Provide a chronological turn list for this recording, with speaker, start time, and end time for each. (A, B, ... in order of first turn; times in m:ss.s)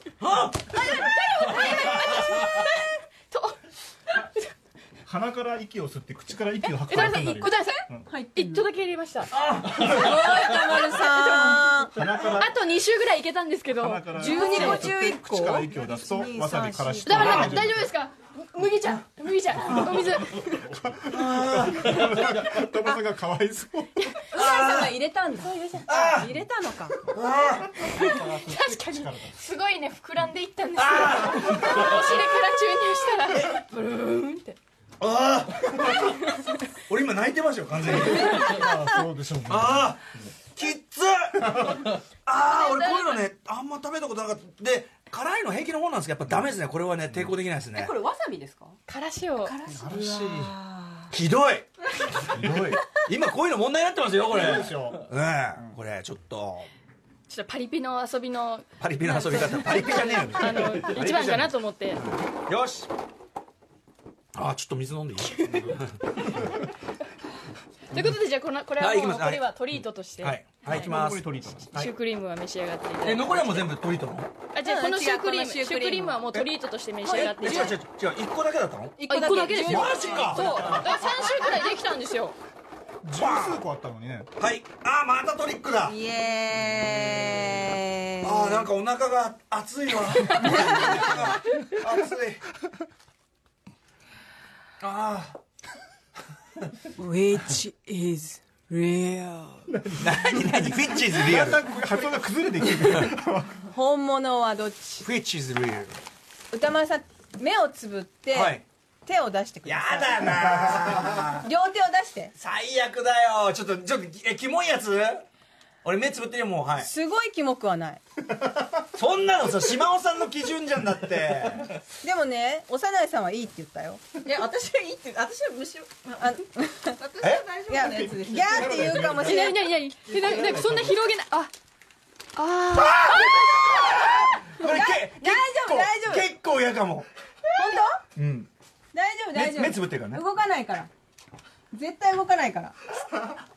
0:00.2-0:02.7 A
0:00.8-0:03.6 B
0:05.0-0:08.1 C
0:06.6-0:11.8 B
0:08.1-0:08.6 D
0:09.3-0:10.4 A
0:09.8-0:12.2 D
0:11.9-0:12.6 C
0:12.3-0:14.9 B
0:13.7-0:17.8 C
0:14.2-0:17.6 D
0:17.0-0:20.6 B
0:19.6-0:20.2 A
0:20.8-0:23.9 C
0:21.0-0:22.6 A
0:24.3-0:27.0 D
0:24.3-0:25.0 A
0:25.9-0:26.3 A
0:27.1-0:27.8 A
0:27.8-0:29.3 C
0:27.9-0:34.6 B
0:30.8-0:32.2 A
0:35.0-0:38.7 A
0:35.9-0:36.5 B
0:38.4-0:39.9 C
0:39.4-0:48.0 A
0:42.5-0:43.2 B
0:47.7-0:48.8 E
0:48.9-0:49.6 B
0:49.4-0:51.0 E
0:49.8-0:50.5 C
0:49.9-0:50.5 A
0:51.1-0:56.7 A
0:52.3-0:52.7 C
0:54.3-0:55.0 C
0:57.3-1:02.0 B
0:58.8-1:02.9 A
1:04.3-1:06.2 A
1:07.9-1:10.9 B
1:08.8-1:11.9 A
1:10.6-1:11.7 C
1:11.7-1:13.7 B
1:13.0-1:14.3 A
1:14.5-1:17.8 B
1:14.6-1:16.2 D
1:17.1-1:17.8 D
1:17.1-1:19.0 A
1:19.0-1:20.8 D
1:19.1-1:22.4 B
1:19.6-1:21.3 A
1:20.1-1:21.0 C
1:23.0-1:23.6 A
1:23.1-1:24.3 C
1:24.4-1:26.0 A
1:25.8-1:28.7 D
1:26.7-1:27.5 C
1:28.2-1:32.4 A
1:30.4-1:31.0 D
1:34.8-1:35.4 A
1:37.0-1:39.7 D
1:39.7-1:43.6 C
1:40.0-1:41.6 A
1:42.8-1:43.1 A
1:43.7-1:45.1 D
1:45.0-1:46.0 A
1:46.5-1:52.3 D
1:48.3-1:48.6 A
1:49.6-1:51.5 A
1:52.4-1:55.2 A
1:55.8-1:56.9 A
1:56.8-1:58.0 D
1:58.9-2:01.7 A
2:02.0-2:04.2 D
2:04.2-2:06.0 E
2:06.0-2:09.6 D
2:07.0-2:08.2 E
2:07.9-2:09.5 C
2:09.2-2:11.5 B
2:10.1-2:10.9 C
2:12.3-2:14.3 B
2:12.7-2:17.1 A
2:14.6-2:16.2 D
2:17.5-2:18.0 D
2:18.2-2:18.5 A
2:18.9-2:20.9 D
2:19.3-2:20.2 A
2:21.7-2:22.8 D